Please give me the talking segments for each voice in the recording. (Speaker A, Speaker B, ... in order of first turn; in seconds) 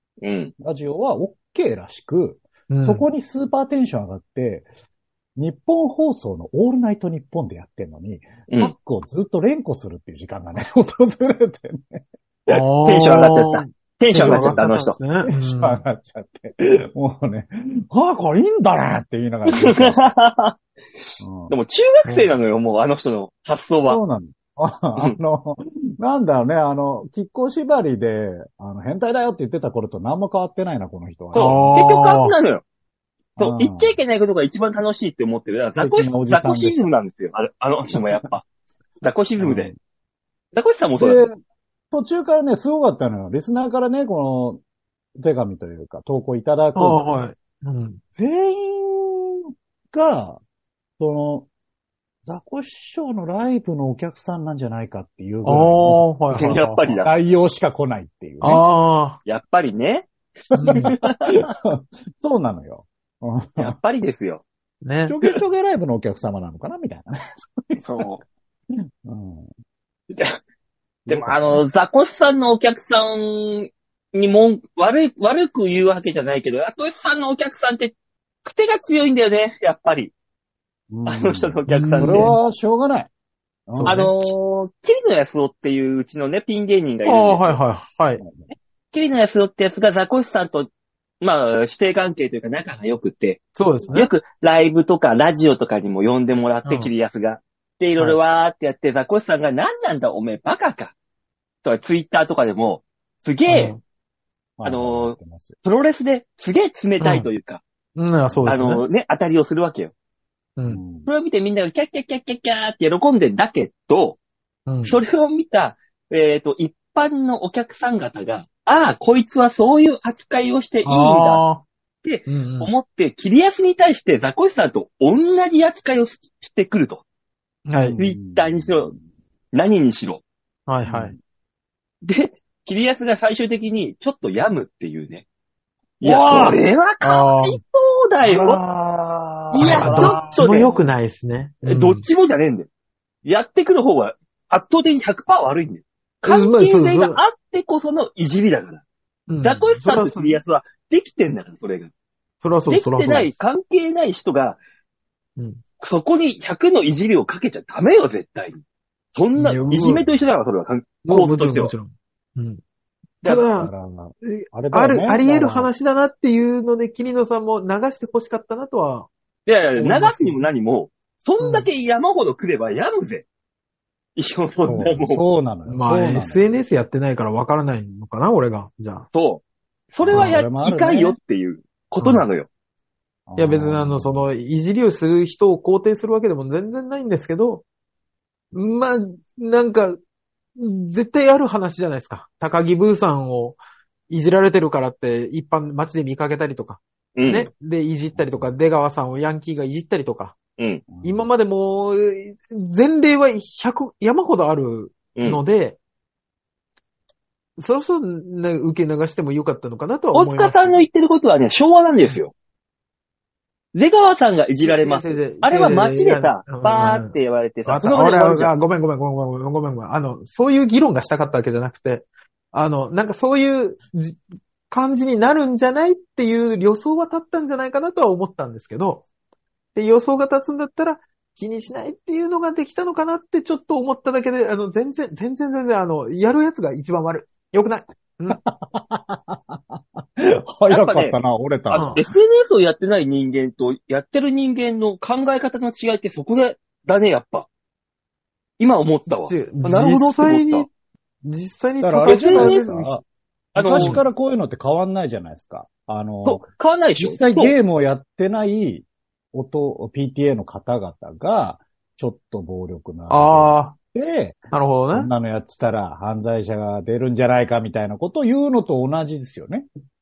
Speaker A: 0.2-0.5, 8.5-8.7, 12.5-15.0, 19.5-20.6, 21.5-24.0, 31.3-32.6, 33.4-38.5, 39.0-39.7, 40.5-41.2, 56.3-57.1, 59.2-60.1, 60.7-61.5, 63.6-64.4, 67.8-68.2, 70.1-70.4, 71.1-80.1, 81.0-82.3, 83.9-87.6, 88.9-90.7, 91.2-93.4, 93.9-101.0, 101.6-103.7, 104.7-107.6, 108.5-109.9, 111.0-114.2, 114.8-121.4, 122.0-127.0, 128.0-128.9, 129.5-130.2, 132.0-135.2, 136.0-138.6, 139.5-140.8, 141.7-142.7, 143.2-148.8, 149.4-151.9, 152.7-154.6, 155.8-158.6, 159.2-161.7, 163.2-163.5, 169.5-173.2, 174.2-175.2, 179.1-182.5, 197.2-197.5, 200.6-200.8, 205.2-205.4, 210.1-212.3, 213.7-218.5, 240.7-241.2, 241.7-247.5, 248.6-250.7, 252.0-252.6, 253.6-254.0, 256.2-257.6
Speaker B: 0.6-4.7, 5.4-12.0, 14.1-14.7, 15.2-20.1, 21.2-21.5, 23.9-31.7, 33.4-34.0, 35.8-36.9, 39.4-39.8, 41.0-41.4, 41.9-44.6, 45.2-47.2, 48.2-50.4, 51.0-51.5, 52.3-56.1, 57.0-58.6, 60.7-63.8, 65.1-68.1, 69.0-69.5, 71.1-71.6, 80.9-83.1, 83.7-84.3, 88.2-88.5, 104.6-105.6, 110.7-111.1, 127.8-129.0, 130.9-131.2, 136.0-136.6, 138.2-140.4, 163.6-165.7, 174.7-176.5, 180.0-181.2, 183.3-184.3, 198.1-198.5, 200.9-201.3, 238.3-241.9, 251.8-253.0, 253.6-256.5, 257.0-264.4, 264.9-269.7
Speaker C: 2.7-3.1, 12.5-15.8, 22.1-22.3, 31.3-32.4, 46.8-48.0, 55.5-57.0, 58.4-59.2, 60.5-60.9, 64.8-65.2, 81.7-82.4, 83.7-84.1, 87.0-88.2, 93.6-94.1, 96.6-96.9, 103.5-103.8, 107.0-107.3, 108.0-108.8, 110.6-110.8, 114.7-115.0, 120.8-121.7, 122.3-122.7, 127.7-128.0, 130.7-131.2, 137.0-137.6, 139.5-142.1, 146.2-147.2, 149.3-150.4, 152.4-153.4, 155.4-155.6, 159.3-160.1, 161.1-162.6, 163.2-163.7, 164.2-169.1, 169.8-170.5, 171.4-171.7, 175.7-179.1, 180.1-180.4, 182.0-182.2, 183.4-187.6, 188.5-190.0, 190.6-200.4, 201.0-205.8, 207.6-210.8, 214.6-229.1, 229.8-238.4, 241.7-242.0, 249.1-250.7, 251.2-253.0, 253.7-254.0, 263.1-263.8, 264.5-265.1